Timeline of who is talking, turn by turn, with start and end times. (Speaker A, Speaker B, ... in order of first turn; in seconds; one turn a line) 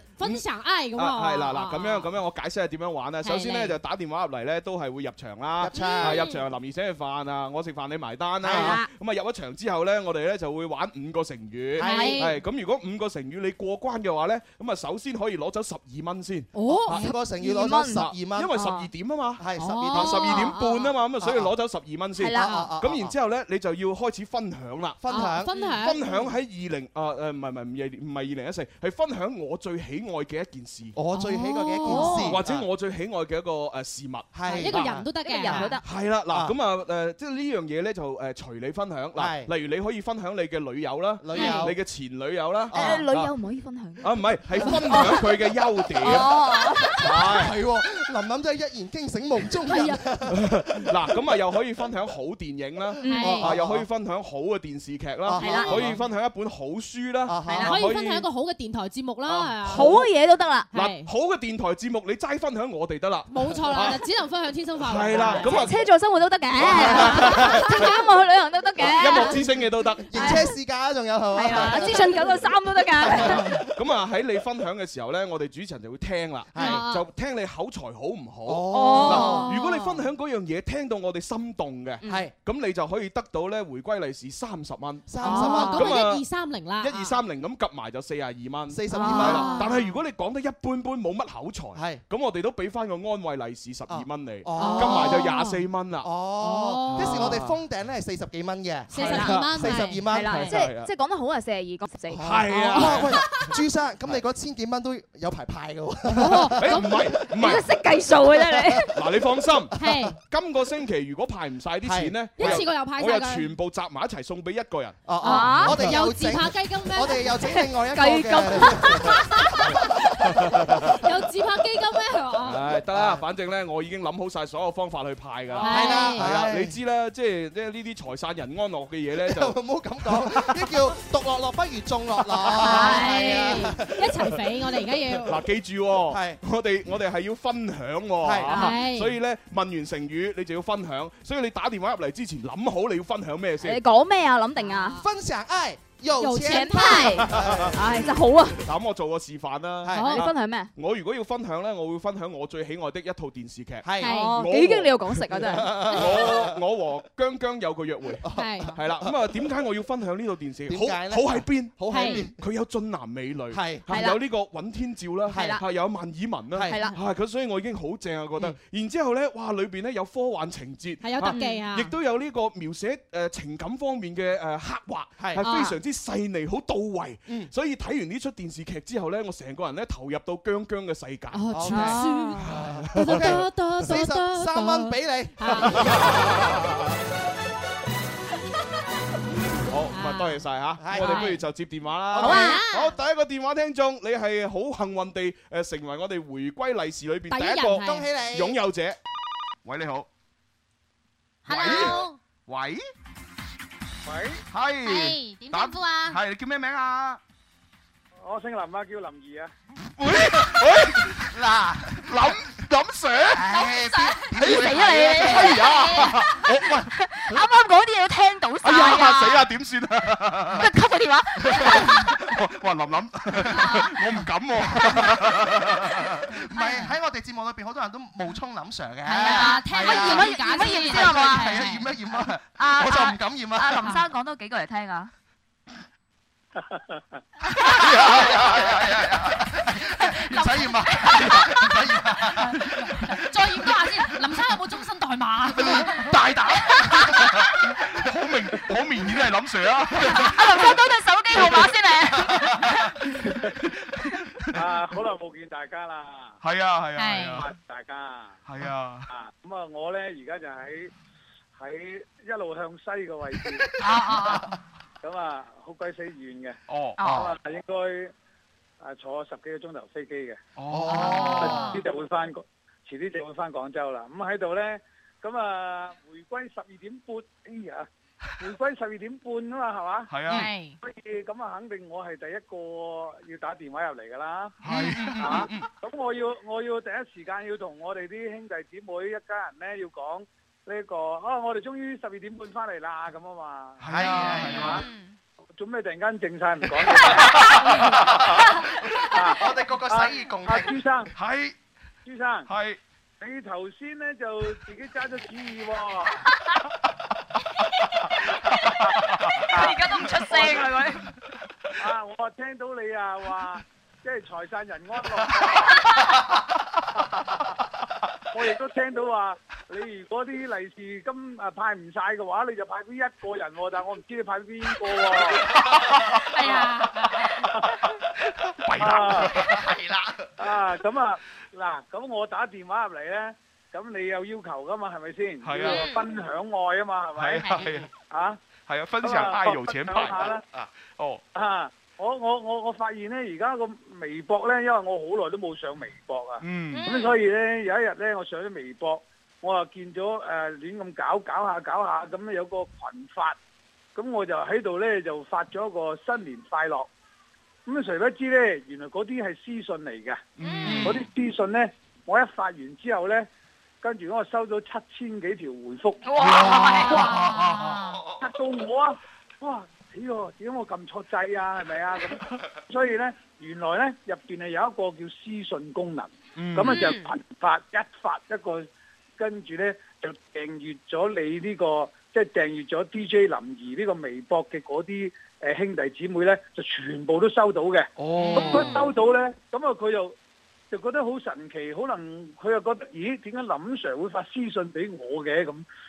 Speaker A: 0.2-2.2
Speaker B: 0.9-17.1
Speaker A: 3.2-3.8
Speaker C: 5.6-6.2
Speaker D: 5.8-6.4
Speaker C: 8.4-8.8
Speaker A: 8.5-8.9
Speaker C: 11.8-12.3
Speaker A: 11.8-12.4
Speaker A: 16.5-17.0
Speaker C: 16.9-18.7
Speaker D: 17.0-18.9
Speaker B: 17.9-25.0
Speaker C: 19.4-20.5
Speaker A: 19.6-20.9
Speaker C: 21.2-21.5
Speaker D: 22.2-22.5
Speaker C: 22.3-23.1
Speaker A: 22.5-22.7
Speaker C: 25.0-25.5
Speaker A: 25.1-26.3
Speaker B: 25.6-31.0
Speaker C: 30.9-32.6
Speaker A: 31.1-32.4
Speaker B: 31.9-35.0
Speaker C: 34.3-35.7
Speaker A: 34.5-35.8
Speaker D: 35.2-35.8
Speaker B: 35.8-43.3
Speaker C: 39.2-39.5
Speaker C: 41.2-41.8
Speaker A: 41.4-41.6
Speaker D: 41.4-41.6
Speaker C: 42.7-43.0
Speaker D: 42.7-44.1
Speaker B: 44.0-46.3
Speaker D: 44.6-45.2
Speaker D: 46.0-47.0
Speaker B: 47.0-47.5
Speaker C: 47.0-50.5
Speaker A: 49.7-50.0
Speaker B: 50.3-58.3
Speaker D: 53.0-53.4
Speaker A: 53.1-53.5
Speaker C: 53.2-53.9
Speaker C: 55.2-56.0
Speaker D: 55.4-55.8
Speaker C: 57.3-57.7
Speaker D: 57.5-57.7
Speaker A: 57.6-59.9
Speaker B: 59.2-60.0
Speaker D: 59.7-60.7
Speaker A: 60.7-61.1
Speaker B: 60.7-64.0
Speaker A: 63.3-65.7
Speaker B: 64.8-65.8
Speaker D: 65.4-69.4
Speaker B: 66.6-67.9
Speaker A: 66.7-68.1
Speaker B: 68.8-70.4
Speaker C: 70.1-72.3
Speaker D: 70.2-70.5
Speaker D: 71.3-73.4
Speaker C: 73.0-73.7
Speaker B: 73.7-86.2
Speaker C: 76.5-76.8
Speaker A: 76.6-77.0
Speaker C: 78.5-79.5
Speaker D: 78.7-79.9
Speaker A: 79.0-79.5
Speaker C: 82.0-82.3
Speaker C: 85.1-86.0
Speaker A: 85.2-87.2
Speaker D: 85.2-85.8
Speaker B: 86.8-96.1
Speaker C: 88.7-89.6
Speaker D: 88.9-89.5
Speaker A: 89.0-89.9
Speaker C: 91.8-92.0
Speaker C: 93.9-95.2
Speaker A: 94.6-95.6
Speaker C: 96.0-100.5
Speaker A: 96.4-97.4
Speaker B: 96.9-97.6
Speaker A: 98.9-100.6
Speaker B: 99.0-99.8
Speaker D: 99.0-99.3
Speaker D: 100.1-102.3
Speaker B: 100.4-100.9
Speaker B: 102.1-103.2
Speaker C: 102.2-107.0
Speaker A: 102.5-102.8
Speaker A: 106.2-106.9
Speaker B: 106.6-107.7
Speaker D: 107.4-108.9
Speaker C: 108.3-108.9
Speaker B: 109.0-109.8
Speaker A: 109.8-110.2
Speaker B: 110.3-115.0
Speaker C: 111.8-112.6
Speaker A: 112.4-113.5
Speaker C: 115.1-119.2
Speaker A: 115.2-117.4
Speaker D: 115.2-115.8
Speaker D: 117.5-119.2
Speaker A: 119.3-119.9
Speaker A: 121.0-122.6
Speaker B: 122.4-129.6
Speaker C: 122.9-123.2
Speaker A: 125.5-126.3
Speaker C: 125.6-126.8
Speaker C: 129.2-134.2
Speaker A: 132.5-135.4
Speaker B: 132.7-133.1
Speaker B: 135.2-143.8
Speaker C: 136.1-136.4
Speaker C: 138.2-138.6
Speaker A: 138.5-139.2
Speaker D: 143.6-145.0
Speaker A: 144.6-145.1
Speaker C: 144.9-147.8
Speaker A: 146.2-147.2
Speaker D: 146.4-148.6
Speaker B: 147.3-147.7
Speaker B: 148.6-155.2
Speaker C: 149.8-150.1
Speaker A: 149.9-150.3
Speaker D: 150.1-150.7
Speaker C: 153.8-154.1
Speaker A: 154.0-154.4
Speaker D: 154.0-155.9
Speaker C: 155.3-156.6
Speaker B: 155.9-183.5
Speaker C: 158.2-159.1
Speaker A: 158.3-158.7
Speaker C: 160.7-162.3
Speaker A: 161.9-162.3
Speaker C: 163.5-163.8
Speaker D: 163.9-164.2
Speaker C: 165.3-165.6
Speaker D: 165.3-165.6
Speaker C: 166.5-166.8
Speaker D: 166.7-167.0
Speaker A: 171.0-171.9
Speaker D: 171.3-171.7
Speaker D: 175.4-175.7
Speaker A: 181.3-186.1
Speaker C: 181.5-186.6
Speaker D: 181.7-182.3
Speaker B: 186.0-186.3
Speaker B: 189.7-199.0
Speaker A: 189.9-191.4
Speaker C: 190.8-191.3
Speaker C: 192.2-192.6
Speaker A: 192.2-193.0
Speaker A: 197.3-198.1
Speaker C: 197.8-198.6
Speaker B: 199.7-200.1
Speaker A: 201.4-202.2
Speaker B: 201.5-202.8
Speaker C: 201.5-202.0
Speaker E: 204.1-204.4
Speaker B: 204.5-207.2
Speaker A: 204.8-206.2
Speaker E: 208.2-209.5
Speaker B: 210.0-211.4
Speaker C: 211.3-212.3
Speaker B: 212.0-213.5
Speaker C: 213.3-215.6
Speaker D: 213.7-216.3
Speaker B: 214.6-216.9
Speaker D: 216.9-219.4
Speaker B: 218.6-220.7
Speaker D: 220.6-222.1
Speaker B: 221.4-226.2
Speaker D: 223.5-224.0
Speaker C: 224.6-234.0
Speaker D: 226.5-226.9
Speaker A: 229.1-231.9
Speaker D: 229.1-231.8
Speaker D: 232.6-235.1
Speaker E: 236.6-237.2
Speaker C: 237.6-242.6
Speaker D: 240.3-241.3
Speaker A: 243.1-246.2
Speaker B: 245.8-250.5
Speaker D: 250.0-252.8
Speaker B: 251.3-251.7
Speaker B: 252.2-252.8
Speaker E: 254.5-256.4
Speaker B: 256.4-257.5
Speaker A: 256.9-257.5
Speaker E: 257.4-258.4
Speaker B: 258.5-259.1
Speaker E: 259.1-260.9
Speaker E: 261.6-263.7
Speaker A: 264.0-264.5
Speaker E: 265.0-268.1
Speaker B: 266.7-267.3
Speaker D: 267.0-267.3
Speaker E: 268.8-270.4
Speaker B: 270.6-271.6
Speaker C: 270.7-271.5
Speaker A: 270.9-271.8
Speaker E: 270.9-277.9
Speaker E: 278.4-280.2
Speaker B: 280.1-280.5
Speaker A: 280.3-280.8
Speaker E: 280.8-284.6
Speaker B: 284.6-285.6
Speaker C: 284.6-285.4
Speaker E: 285.2-294.8
Speaker B: 293.8-294.8
Speaker C: 293.8-294.8
Speaker E: 295.6-297.8
Speaker E: 299.1-301.1
Speaker C: 299.3-300.8
Speaker B: 301.2-301.5
Speaker E: 302.1-302.5
Speaker B: 302.5-302.8
Speaker E: 303.2-306.2
Speaker E: 309.5-310.6
Speaker D: 309.6-311.0
Speaker E: 311.8-316.0
Speaker E: 318.3-325.4
Speaker A: 326.3-327.3
Speaker B: 328.6-329.7
Speaker E: 328.8-329.3
Speaker E: 330.4-338.4
Speaker B: 335.4-335.8
Speaker A: 335.6-336.0
Speaker B: 337.2-337.9
Speaker A: 337.4-337.9
Speaker B: 338.7-341.2
Speaker E: 339.0-340.4
Speaker E: 341.4-353.4
Speaker B: 346.4-346.9
Speaker A: 346.7-347.1
Speaker E: 353.9-356.9
Speaker E: 357.7-363.3
Speaker B: 360.4-361.0
Speaker A: 360.4-360.7
Speaker E: 363.8-366.3
Speaker D: 366.0-367.2
Speaker B: 366.2-367.8
Speaker A: 366.6-368.0
Speaker E: 368.2-378.7
Speaker B: 376.4-376.8
Speaker E: 379.2-390.1
Speaker B: 388.0-388.6
Speaker E: 390.7-395.6